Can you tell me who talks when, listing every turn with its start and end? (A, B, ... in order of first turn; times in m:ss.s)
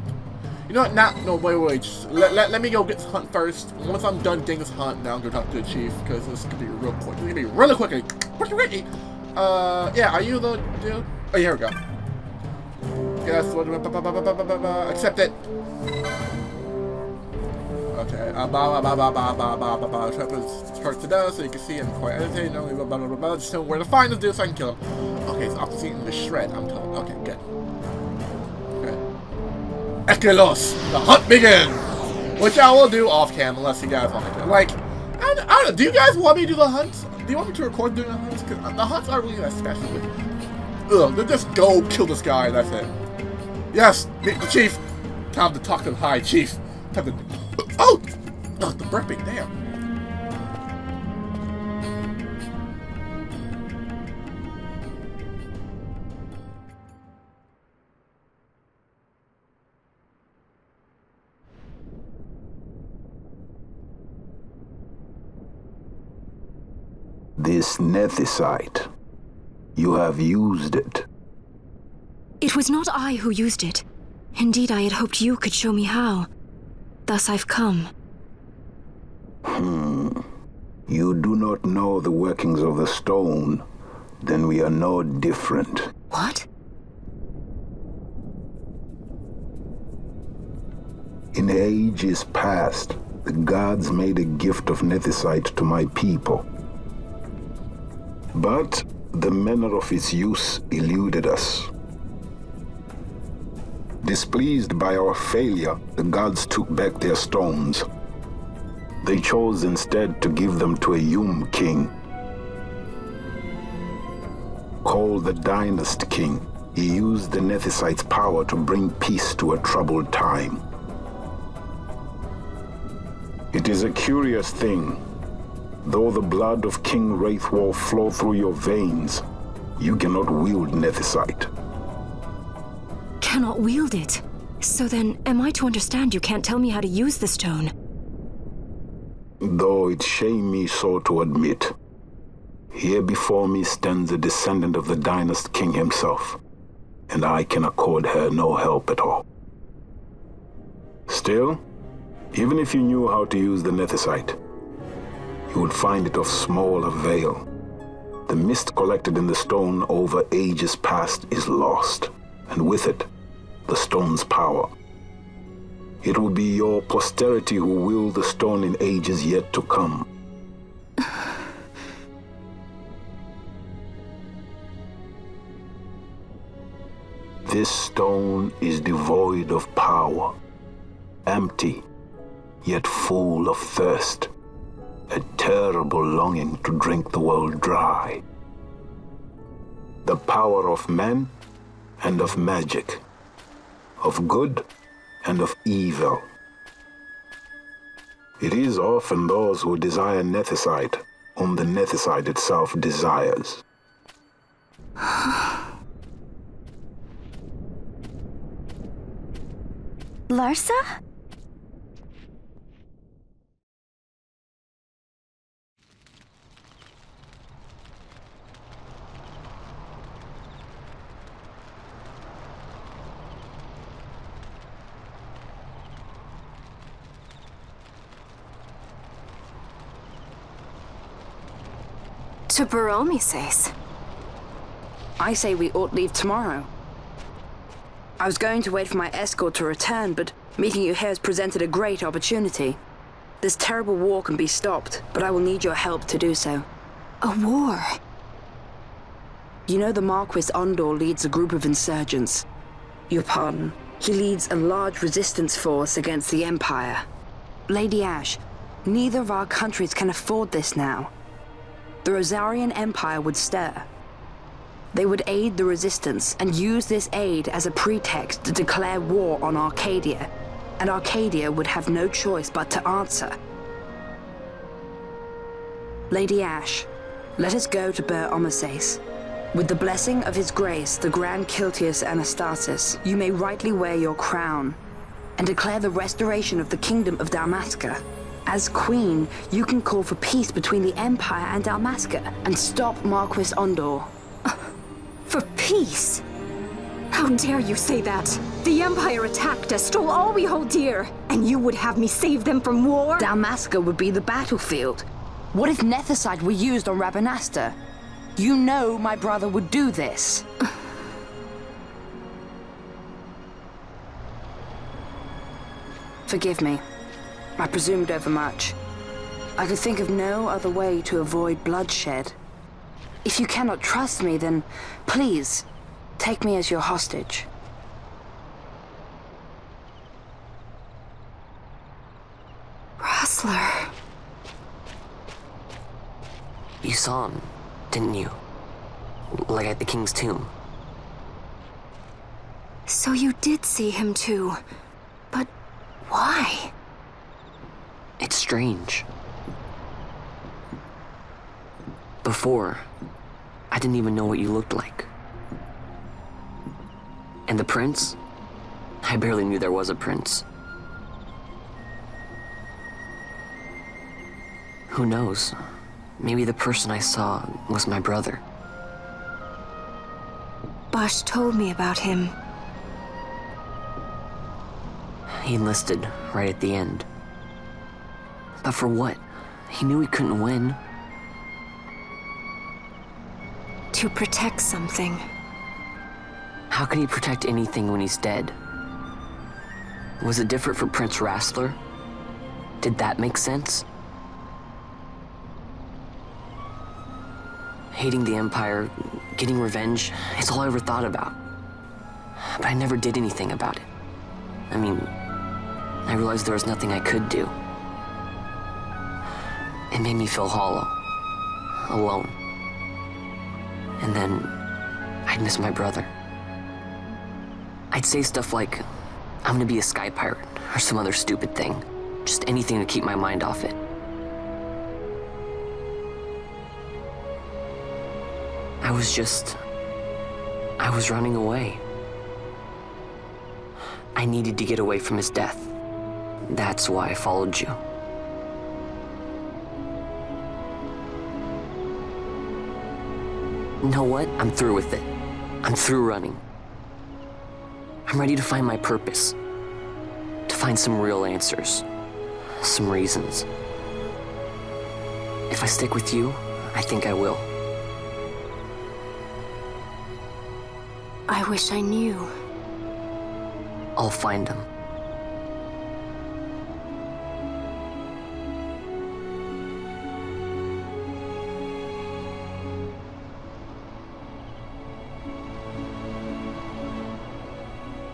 0:00.7-0:11.8 A
0:13.2-0:15.4 A
0:17.9-0:27.4 A
0:30.1-0:40.1 A
0:40.9-0:42.9 A
0:43.7-0:47.2 A
0:47.8-0:48.1 A
0:48.6-0:49.5 A
1:07.4-1:08.9 B
1:09.8-1:11.1 B
1:12.4-1:13.8 C
1:14.4-1:16.3 C
1:17.1-1:17.9 C
1:19.5-1:20.2 B
1:20.9-1:23.6 B
1:24.2-1:25.9 B
1:26.1-1:26.4 C
1:31.3-1:36.5 B
1:38.3-1:41.7 B
1:44.0-1:47.9 B
1:49.0-1:51.9 B
1:54.8-2:00.6 B
2:03.5-2:05.0 B
2:05.8-2:09.2 B
2:09.8-2:11.5 B
2:13.2-2:17.7 C
2:19.4-2:21.7 B
2:22.7-2:26.4 B
2:27.1-2:29.2 B
2:31.1-2:31.6 B
2:32.3-2:34.4 B
2:35.5-2:37.5 B
2:38.3-2:43.1 B
2:43.7-2:44.7 B
2:46.0-2:50.1 B
2:57.5-3:00.3 B
3:01.3-3:01.8 B
3:02.6-3:04.3 B
3:05.1-3:08.2 B
3:10.0-3:11.3 B
3:12.0-3:13.0 B
3:14.0-3:14.6 B
3:15.2-3:16.3 B
3:18.4-3:23.6 B
3:30.3-3:30.8 C
3:52.5-3:53.7 C
3:55.2-3:56.7 D
3:58.2-4:02.8 D
4:03.4-4:06.7 D
4:07.2-4:07.9 C
4:09.7-4:12.4 D
4:13.1-4:17.0 D
4:17.7-4:21.1 D
4:22.0-4:23.9 D
4:24.9-4:33.4 D
4:36.1-4:36.9 D
4:37.4-4:39.0 D
4:39.5-4:44.8 D
4:45.4-4:54.1 D
4:55.3-4:56.2 C
4:57.1-5:03.3 C
5:03.2-5:07.8 D
5:08.4-5:10.5 D
5:16.3-5:16.8 D
5:17.6-5:18.8 D
5:19.6-5:22.4 D
5:23.2-5:25.6 D
5:26.2-5:27.5 D
5:33.0-5:33.9 C
5:36.8-5:38.4 E
5:39.4-5:40.5 E
5:42.9-5:44.6 C
5:46.1-5:46.7 C
5:48.2-5:49.1 E
5:52.2-5:52.8 E
5:53.7-5:55.1 E
5:57.5-5:58.2 E
5:59.0-6:00.4 E
6:04.9-6:05.6 E
6:06.2-6:08.4 E
6:10.9-6:12.3 C
6:15.4-6:17.1 E
6:18.6-6:20.8 E
6:23.9-6:25.2 C
6:26.7-6:28.6 E
6:30.2-6:31.8 E
6:32.8-6:33.8 E
6:37.9-6:41.4 E
6:42.6-6:43.9 E
6:44.7-6:45.1 E
6:46.1-6:47.5 E
6:49.9-6:51.0 E
6:51.9-6:52.4 E
6:54.0-6:54.5 E
6:55.3-6:56.1 E
6:57.9-6:58.8 E
6:59.4-7:03.8 E
7:08.8-7:09.6 E
7:10.8-7:11.8 E
7:14.2-7:15.7 E
7:16.5-7:17.8 E
7:23.8-7:25.1 E
7:25.6-7:26.4 E
7:28.1-7:29.4 E
7:30.5-7:31.8 E
7:32.6-7:33.5 E
7:35.5-7:37.5 E
7:41.3-7:42.3 C
7:44.0-7:44.7 E